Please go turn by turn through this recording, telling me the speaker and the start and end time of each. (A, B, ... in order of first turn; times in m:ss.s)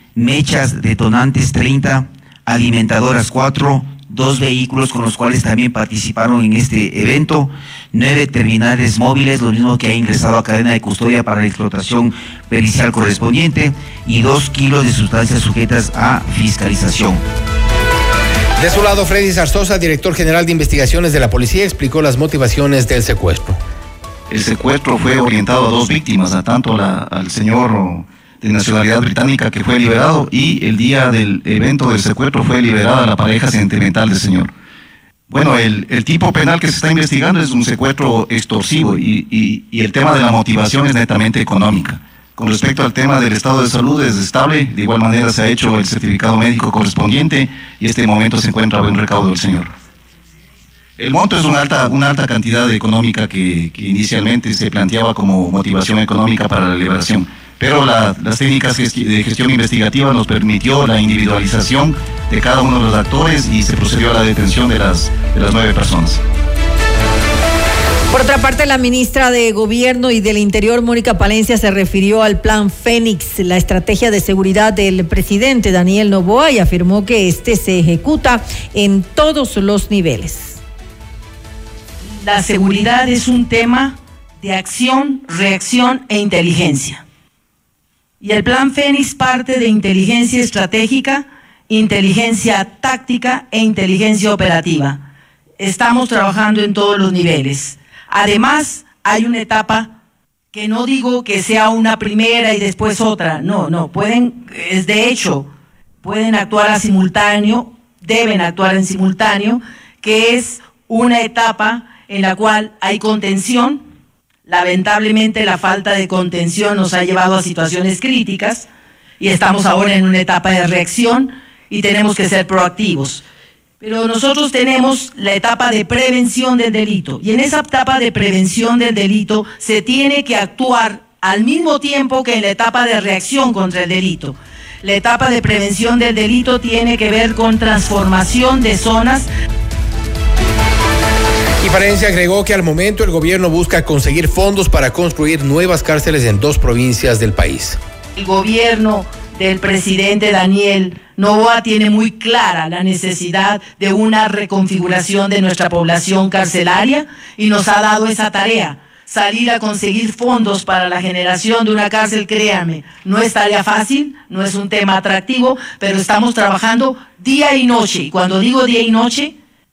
0:00.2-0:17.2 A
0:18.6-0:23.6 B
0:24.3-0:34.5 C
0:35.3-0:49.7 C
0:51.0-1:06.2 C
1:08.1-1:20.6 D
1:22.1-1:27.0 E
1:28.2-1:35.0 E
1:35.6-1:39.9 E
1:40.5-1:45.5 E
1:46.0-1:53.8 E
1:54.5-1:58.7 E
1:59.2-2:03.2 E
2:03.8-2:19.3 E
2:21.6-2:27.8 B
2:28.2-2:49.3 E